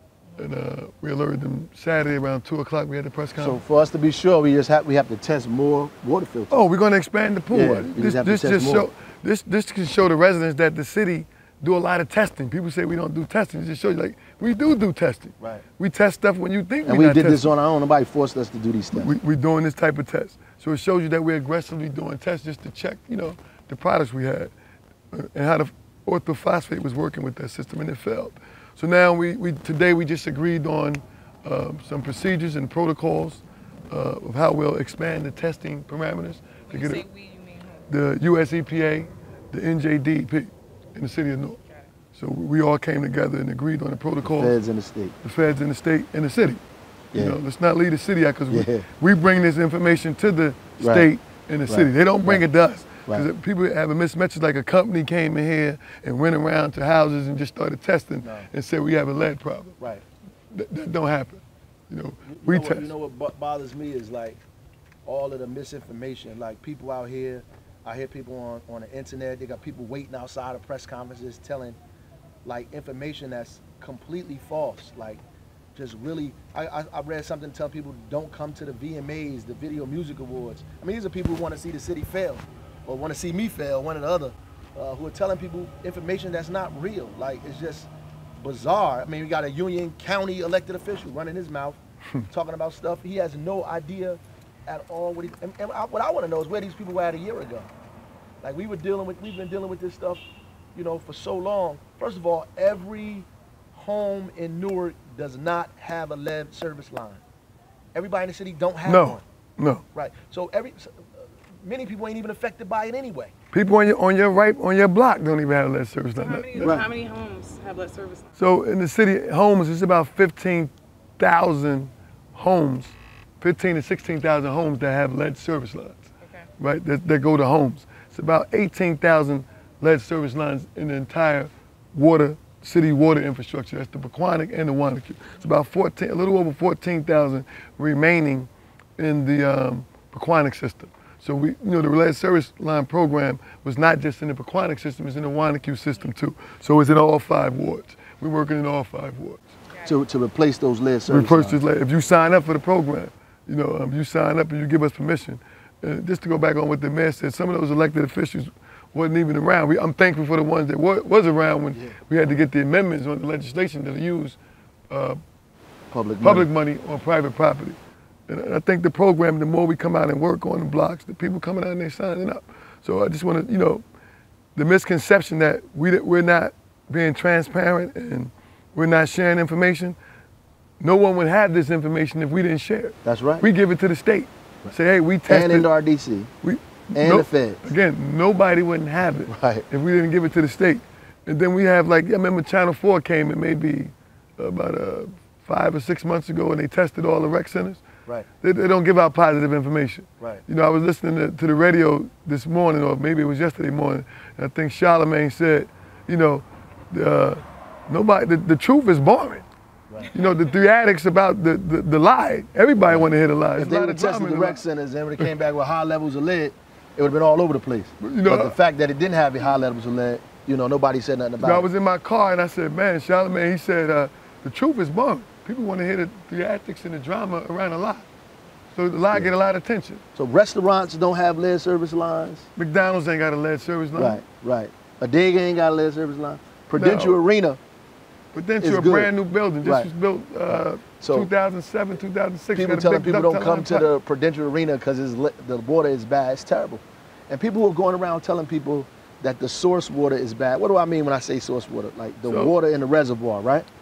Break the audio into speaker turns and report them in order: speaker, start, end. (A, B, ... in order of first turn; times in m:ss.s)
0:00.4-0:03.6 A
0:03.4-0:06.6 B
0:06.5-0:17.5 A
0:07.5-0:08.9 B
0:16.8-0:19.1 B
0:18.9-0:24.5 A
0:25.1-0:37.0 A
0:36.7-0:37.9 C
0:37.9-0:41.6 A
0:42.1-0:44.5 A
0:44.2-0:45.1 B
0:45.2-0:46.6 A
0:47.1-0:59.8 A
0:48.5-0:48.8 B
0:50.8-0:51.1 B
0:51.7-0:52.4 B
0:58.2-0:58.5 B
1:00.5-1:02.9 A
1:02.3-1:04.4 B
1:05.0-1:11.8 B
1:12.4-1:15.2 B
1:15.7-1:37.7 B
1:38.4-1:40.2 B
1:40.7-1:47.2 B
1:47.9-1:49.2 B
1:48.8-1:49.8 A
1:49.9-1:53.3 B
1:53.5-1:56.8 A
1:56.2-1:58.4 C
1:56.6-1:56.8 B
1:58.4-2:06.1 A
2:06.2-2:06.5 C
2:06.6-2:29.5 A
2:29.8-2:31.6 B
2:31.1-2:44.4 A
2:44.9-2:45.2 A
2:45.9-2:46.5 B
2:46.2-2:47.8 A
2:48.3-2:53.8 A
2:54.5-3:00.0 A
3:00.8-3:05.7 A
3:03.0-3:03.4 B
3:05.3-3:06.3 B
3:06.4-3:17.8 A
3:06.9-3:07.7 B
3:09.3-3:09.6 B
3:18.4-3:29.4 A
3:30.1-3:34.6 A
3:33.6-3:41.6 B
3:38.0-3:38.6 A
3:41.4-3:48.1 A
3:48.7-3:50.0 A
3:50.1-3:52.5 B
3:52.6-3:54.2 A
3:54.0-3:57.6 B
3:56.8-3:57.2 A
3:58.3-4:03.9 A
3:58.6-3:59.1 B
3:59.6-3:59.9 B
4:00.5-4:01.3 B
4:02.5-4:13.7 B
4:12.2-4:12.5 A